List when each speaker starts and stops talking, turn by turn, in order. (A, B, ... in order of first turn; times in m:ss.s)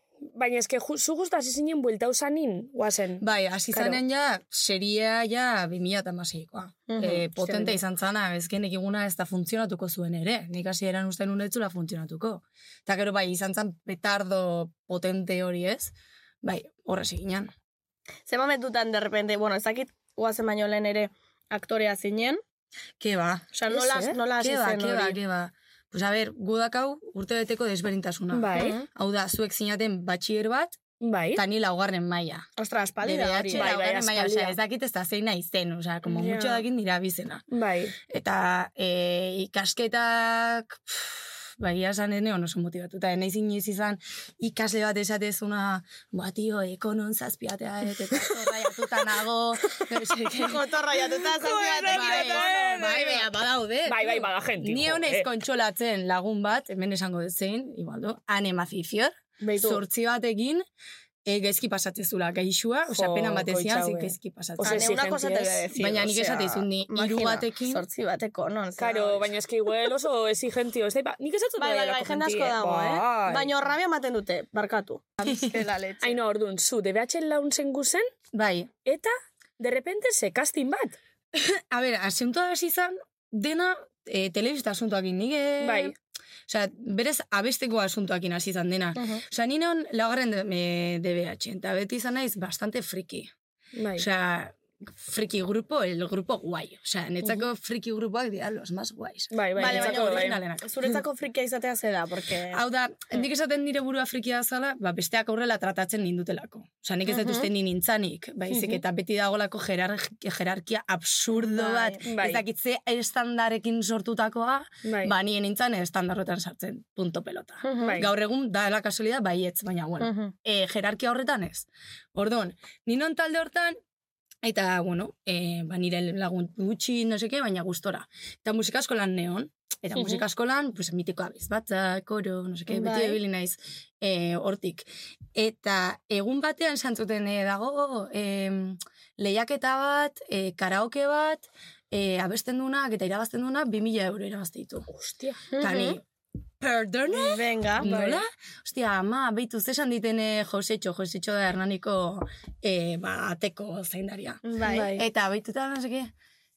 0:00.3-0:03.2 A
0:03.2-0:17.5 B
0:06.9-0:07.7 C
0:18.3-0:22.4 C
0:23.0-0:23.6 B
0:23.5-0:25.2 C
0:23.7-0:24.1 A
0:24.3-0:30.8 B
0:28.3-0:28.8 A
0:28.5-0:28.9 C
0:31.0-0:31.4 A
0:31.3-0:32.5 B
0:32.6-0:33.7 C
0:33.0-0:37.4 B
0:33.5-0:34.6 A
0:36.1-0:36.6 A
0:37.5-0:37.9 A
0:38.1-0:50.6 B
0:50.3-0:53.1 C
0:51.4-0:53.2 A
0:51.9-1:00.6 B
0:53.8-0:55.3 A
0:59.4-0:59.8 C
1:01.2-1:04.9 B
1:02.9-1:05.6 A
1:04.6-1:09.3 C
1:05.7-1:07.8 B
1:08.8-1:13.5 A
1:11.6-1:16.2 C
1:16.0-1:18.1 A
1:18.3-1:18.7 B
1:18.8-1:21.0 A
1:21.3-1:25.9 B
1:25.6-1:25.9 A
1:26.5-1:33.3 B
1:29.0-1:29.2 C
1:33.8-1:34.0 A
1:34.0-1:40.7 B
1:39.3-1:40.4 A
1:39.6-1:42.6 C
1:42.5-2:03.8 B
1:47.1-1:47.5 C
1:51.3-1:52.0 C
1:52.0-1:52.4 A
1:54.8-1:55.1 A
1:57.6-1:58.0 C
1:57.8-1:58.1 A
2:00.0-2:00.3 C
2:04.4-2:24.9 B
2:10.0-2:10.2 A
2:12.7-2:13.2 C
2:24.9-2:25.4 A
2:25.5-2:26.0 C
2:25.6-2:26.0 B
2:26.6-2:36.1 B
2:27.1-2:28.0 C
2:27.8-2:28.2 A
2:34.4-2:34.9 C
2:34.6-2:35.0 A